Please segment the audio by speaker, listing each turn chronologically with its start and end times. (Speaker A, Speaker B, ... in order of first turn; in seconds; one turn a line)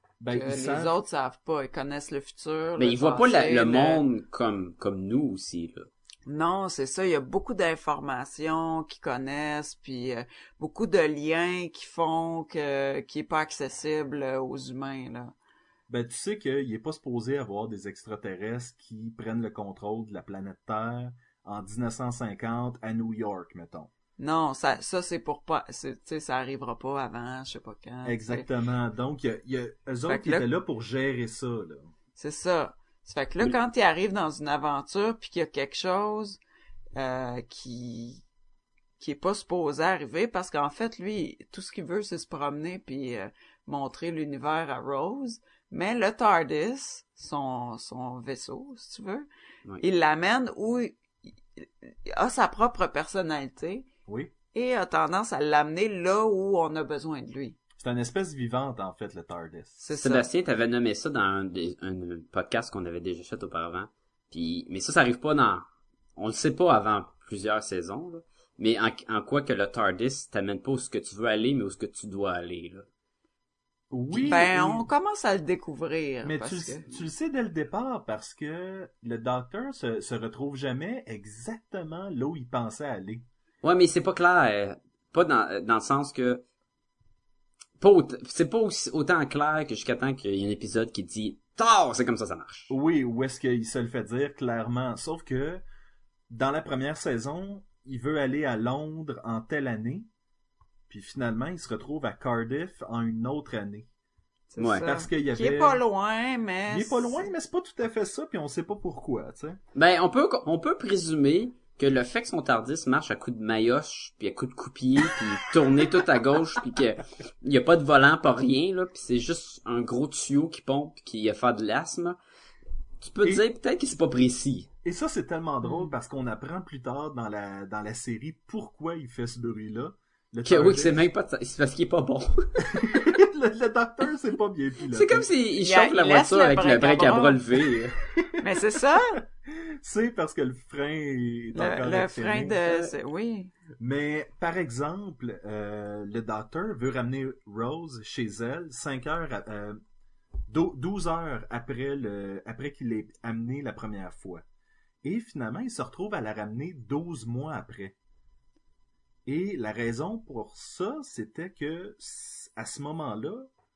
Speaker A: 0.2-0.9
Speaker B: 0.3-4.0
Speaker C: 2.8-5.9
Speaker B: 6.3-15.3
Speaker A: 15.9-23.9
Speaker B: 24.2-28.5
Speaker A: 28.0-31.9
Speaker B: 30.1-30.5
Speaker B: 32.2-36.4
Speaker B: 37.0-38.2
Speaker B: 39.0-49.3
Speaker B: 49.8-51.0
Speaker B: 51.6-53.9
Speaker A: 54.1-54.3
Speaker B: 54.5-57.6
Speaker A: 57.8-59.8
Speaker B: 59.8-60.3
Speaker C: 60.0-72.9
Speaker A: 73.9-74.9
Speaker C: 74.1-74.5
Speaker B: 74.3-77.0
Speaker A: 76.2-83.3
Speaker C: 83.6-86.4
Speaker C: 87.8-92.7
Speaker A: 92.7-95.6
Speaker A: 96.3-100.1
Speaker A: 100.9-103.9
Speaker B: 104.5-107.3
Speaker C: 104.6-104.9
Speaker A: 104.8-105.8
Speaker A: 106.7-109.6
Speaker C: 109.7-122.2
Speaker C: 123.0-124.7
Speaker A: 124.8-131.1
Speaker B: 125.6-125.9
Speaker C: 130.4-133.0
Speaker A: 132.7-135.3
Speaker C: 134.9-138.0
Speaker B: 135.6-137.4
Speaker A: 138.1-138.6
Speaker B: 138.4-139.2
Speaker A: 139.2-142.6
Speaker B: 141.5-143.5
Speaker A: 143.8-149.8
Speaker A: 150.5-154.4
Speaker A: 155.0-157.9
Speaker A: 159.3-163.5